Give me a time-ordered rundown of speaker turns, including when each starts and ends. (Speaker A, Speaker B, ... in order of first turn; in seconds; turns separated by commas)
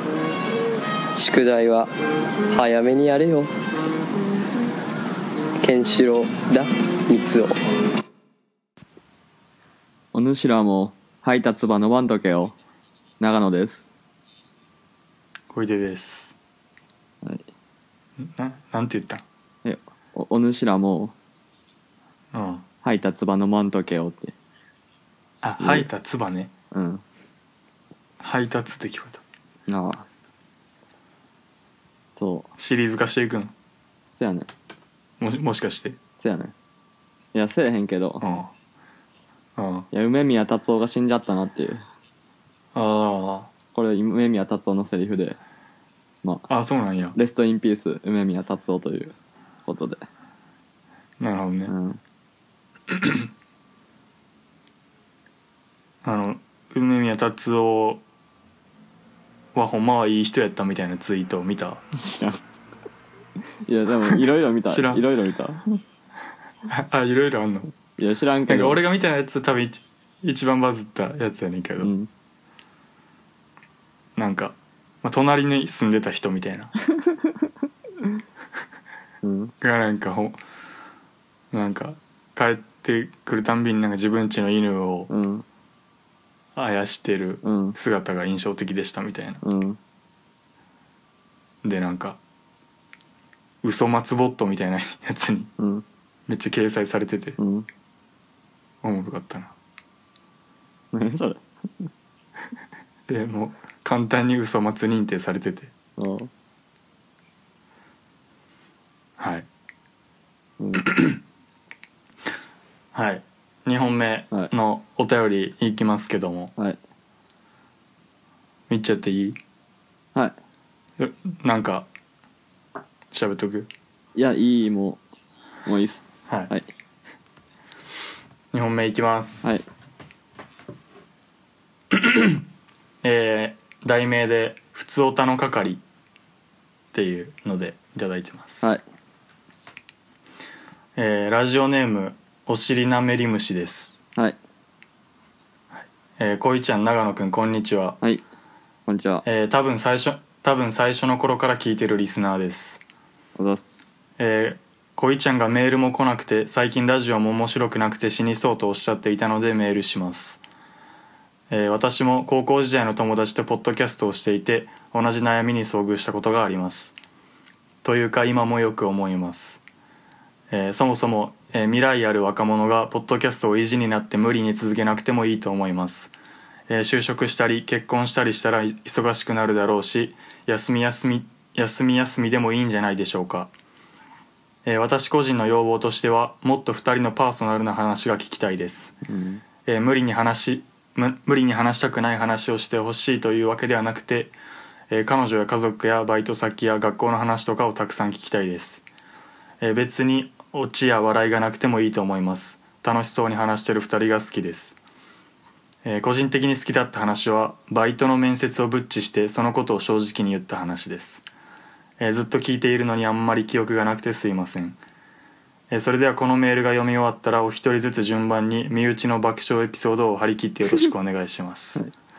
Speaker A: 1.1-1.9, Speaker A: 2.5-3.5, Speaker A: 5.6-7.6, Speaker B: 10.1-12.6, Speaker B: 13.2-13.9, Speaker C: 15.5-16.3, Speaker C: 18.2-19.2, Speaker B: 19.6-21.1, Speaker C: 22.3-22.6, Speaker B: 22.8-24.3, Speaker C: 25.4-26.5, Speaker B: 25.6-25.9, Speaker B: 26.7-27.0, Speaker C: 28.2-29.2, Speaker B: 29.7-30.1, Speaker B: 32.1-32.5, Speaker C: 32.6-33.5, Speaker B: 34.1-34.5, Speaker C: 35.2-36.0, Speaker B: 36.2-36.5, Speaker B: 37.3-38.3, Speaker C: 38.2-38.5, Speaker C: 39.5-39.9, Speaker B: 39.9-41.8, Speaker C: 42.7-43.5, Speaker B: 43.7-45.4, Speaker B: 46.2-46.5, Speaker C: 46.5-47.1, Speaker B: 47.1-49.1, Speaker B: 49.6-50.0, Speaker C: 51.2-51.7, Speaker B: 51.7-52.0, Speaker C: 52.9-53.3, Speaker C: 56.0-58.0, Speaker C: 59.5-61.8, Speaker B: 62.0-62.4, Speaker B: 63.6-65.8, Speaker C: 64.7-65.0, Speaker C: 66.7-67.7, Speaker B: 68.0-68.8, Speaker C: 68.5-71.9, Speaker B: 71.8-72.1, Speaker C: 74.2-76.7, Speaker B: 79.2-79.5, Speaker C: 79.6-80.4, Speaker C: 81.5-85.1, Speaker B: 85.1-85.4, Speaker C: 86.5-89.4, Speaker B: 87.4-87.8, Speaker B: 89.4-89.8, Speaker C: 91.6-92.2, Speaker C: 93.6-95.5, Speaker B: 95.6-95.8, Speaker C: 96.3-97.4, Speaker B: 97.4-97.7, Speaker C: 98.8-99.5, Speaker B: 100.9-101.4, Speaker C: 103.1-105.7, Speaker B: 106.0-106.3, Speaker C: 109.2-109.5, Speaker B: 110.6-110.9, Speaker C: 110.8-111.2, Speaker C: 112.9-116.5, Speaker C: 118.7-119.4, Speaker C: 121.0-121.9, Speaker C: 123.1-123.7, Speaker B: 124.1-125.0, Speaker B: 125.7-126.7, Speaker C: 128.5-129.5, Speaker C: 131.9-132.4, Speaker C: 133.0-135.8, Speaker C: 136.9-138.7, Speaker C: 140.9-144.0, Speaker C: 145.7-148.0, Speaker B: 148.9-149.2, Speaker C: 149.2-152.8, Speaker B: 153.4-154.0, Speaker C: 154.2-160.4, Speaker C: 161.5-166.9, Speaker C: 167.8-169.6, Speaker C: 170.5-176.1, Speaker C: 176.7-183.5, Speaker C: 184.6-188.9, Speaker B: 189.0-189.4, Speaker C: 189.7-194.3, Speaker C: 194.9-198.8, Speaker C: 199.6-204.8, Speaker C: 205.8-211.2, Speaker C: 212.0-214.8, Speaker C: 215.7-221.8